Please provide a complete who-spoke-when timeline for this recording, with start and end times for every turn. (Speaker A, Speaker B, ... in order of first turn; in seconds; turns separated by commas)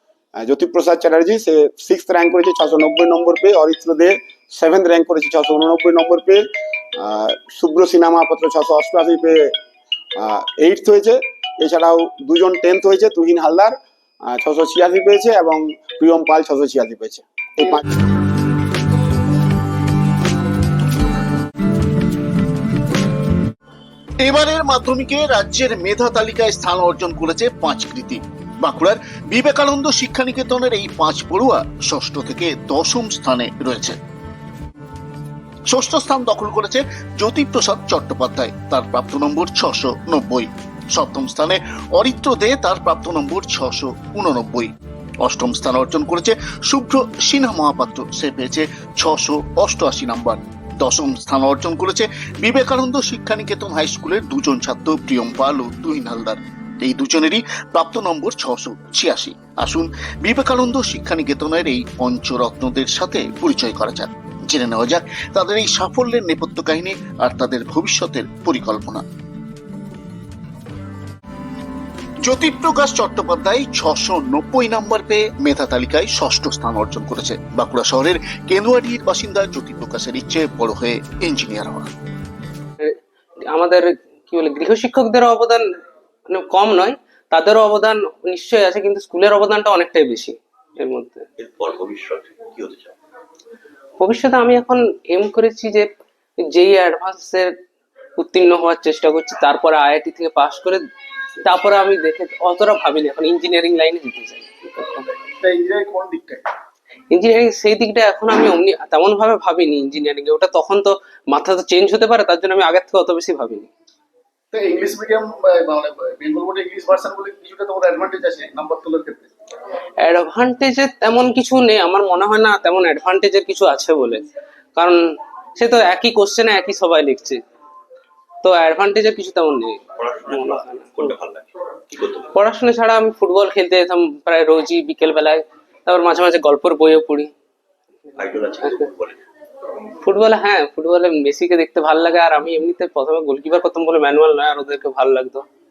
Speaker A: 0.4-6.4, Speaker A: 7.0-9.5, Speaker A: 10.2-13.8, Speaker A: 14.3-17.8, Speaker B: 24.2-34.0, Speaker B: 35.7-44.7, Speaker B: 45.2-69.0, Speaker B: 72.2-81.9, Speaker C: 83.5-85.6, Speaker C: 86.3-91.2, Speaker D: 91.4-93.0, Speaker C: 94.0-95.9, Speaker C: 96.5-97.5, Speaker C: 98.2-100.8, Speaker C: 101.4-105.1, Speaker E: 105.4-106.4, Speaker C: 107.1-113.7, Speaker E: 114.5-119.3, Speaker C: 120.0-124.2, Speaker C: 124.8-125.0, Speaker C: 125.6-127.4, Speaker C: 128.4-131.2, Speaker D: 130.0-132.3, Speaker C: 132.3-137.3, Speaker D: 138.2-139.2, Speaker C: 138.4-138.9, Speaker C: 140.0-145.4